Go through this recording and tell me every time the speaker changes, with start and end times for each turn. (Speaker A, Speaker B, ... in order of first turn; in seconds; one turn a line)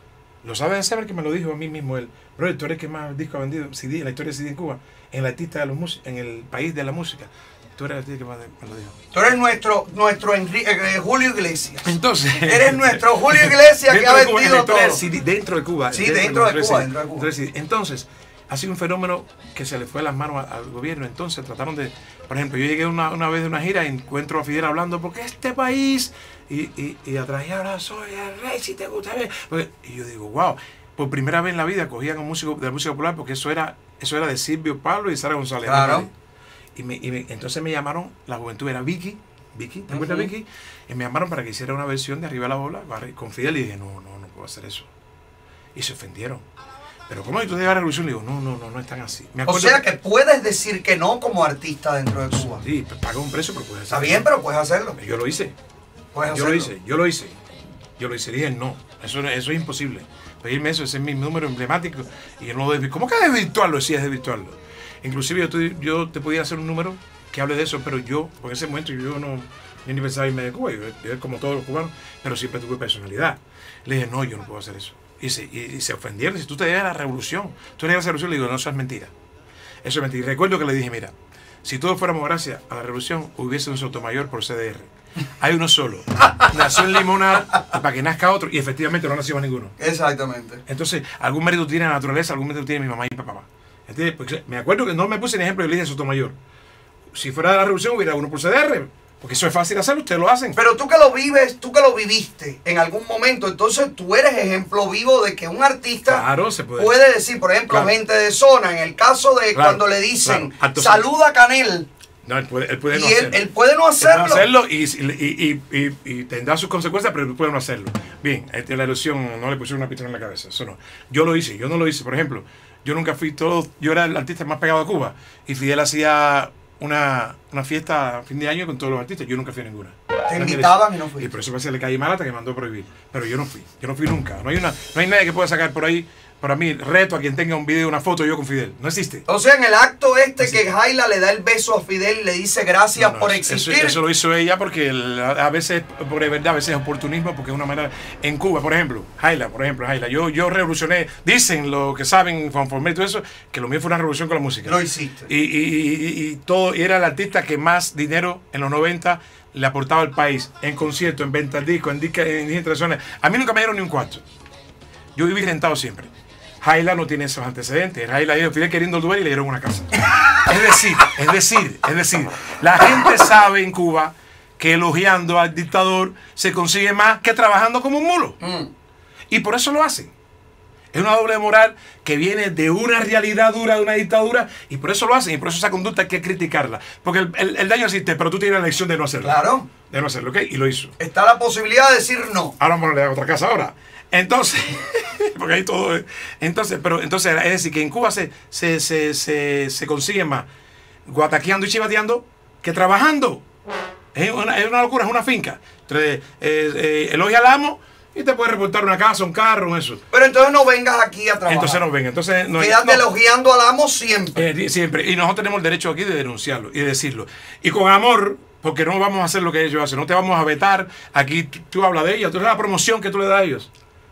Speaker A: 0.4-8.9
Speaker B: 9.1-15.0
Speaker A: 11.8-36.1
Speaker B: 15.9-17.3
Speaker B: 35.6-36.1
Speaker A: 36.7-44.9
Speaker B: 39.9-40.3
Speaker A: 45.7-46.4
Speaker A: 47.1-49.8
Speaker B: 49.5-52.6
Speaker A: 52.3-54.3
Speaker B: 53.9-55.0
Speaker A: 55.0-55.5
Speaker B: 56.1-56.7
Speaker A: 56.3-57.4
Speaker A: 58.0-79.1
Speaker A: 79.8-81.1
Speaker A: 81.6-89.8
Speaker B: 89.8-90.6
Speaker A: 90.7-96.3
Speaker A: 97.1-100.6
Speaker B: 100.5-106.2
Speaker A: 106.1-106.9
Speaker B: 106.8-111.9
Speaker A: 109.5-111.0
Speaker A: 112.2-113.4
Speaker B: 112.9-114.5
Speaker A: 114.0-139.2
Speaker B: 130.3-131.3
Speaker B: 139.3-144.0
Speaker A: 140.4-140.7
Speaker A: 142.9-164.2
Speaker B: 154.6-155.3
Speaker A: 165.1-166.1
Speaker A: 166.6-178.4
Speaker B: 178.4-178.7
Speaker A: 179.3-180.1
Speaker A: 180.9-190.9
Speaker B: 189.2-189.7
Speaker B: 191.0-192.5
Speaker A: 192.6-200.5
Speaker A: 201.1-203.4
Speaker A: 204.1-210.0
Speaker B: 210.1-211.8
Speaker A: 211.5-213.0
Speaker B: 212.6-214.4
Speaker A: 214.3-223.7